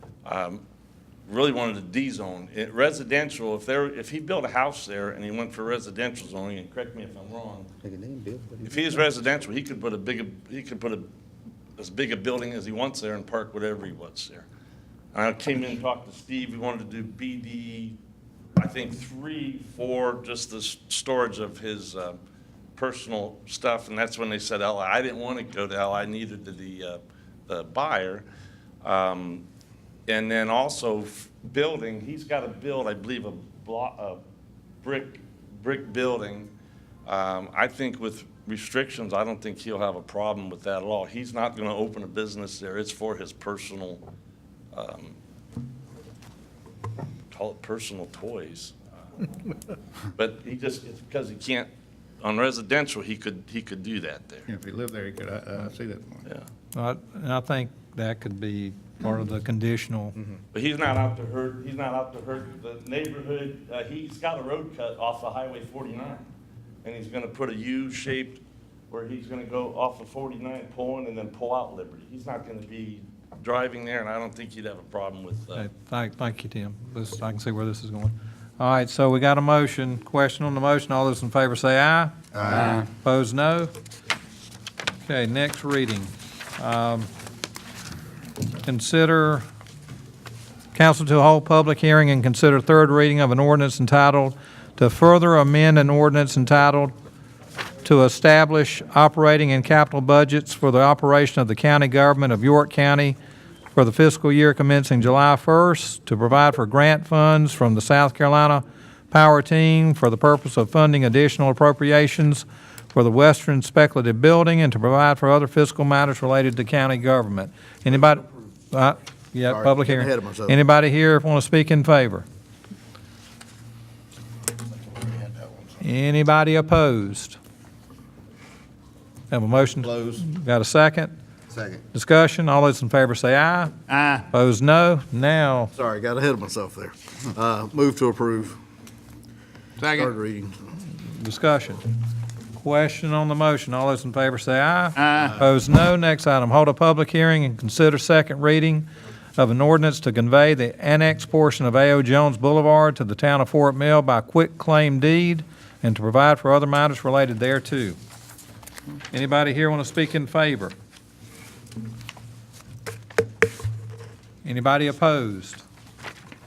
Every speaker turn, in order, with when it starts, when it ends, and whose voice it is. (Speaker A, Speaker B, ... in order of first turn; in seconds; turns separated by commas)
Speaker A: 0.2-0.6, Speaker A: 1.3-7.7, Speaker B: 7.8-8.7, Speaker A: 8.6-11.1, Speaker A: 11.8-14.4, Speaker A: 15.1-18.0, Speaker A: 18.6-22.2, Speaker A: 22.8-28.2, Speaker A: 28.8-29.5, Speaker A: 30.1-34.2, Speaker A: 34.8-36.5, Speaker A: 37.0-44.0, Speaker A: 44.7-45.1, Speaker A: 47.3-48.7, Speaker A: 50.1-51.7, Speaker A: 52.2-54.5, Speaker C: 54.5-56.2, Speaker D: 56.7-60.1, Speaker A: 60.5-66.2, Speaker A: 66.8-75.7, Speaker D: 75.6-83.7, Speaker D: 85.0-87.1, Speaker D: 88.6-89.4, Speaker D: 90.7-96.9, Speaker D: 97.8-103.2, Speaker D: 103.7-122.2, Speaker B: 119.5-120.5, Speaker B: 125.0-125.4, Speaker D: 125.8-127.4, Speaker D: 129.3-131.1, Speaker B: 129.9-130.2, Speaker B: 131.5-131.8, Speaker D: 131.9-133.7, Speaker C: 133.9-134.2, Speaker D: 134.3-135.7, Speaker B: 135.8-138.6, Speaker C: 139.8-140.1, Speaker B: 139.9-140.5, Speaker D: 141.1-141.8, Speaker D: 142.5-158.0, Speaker C: 144.9-145.3, Speaker D: 159.1-160.7, Speaker D: 164.4-165.6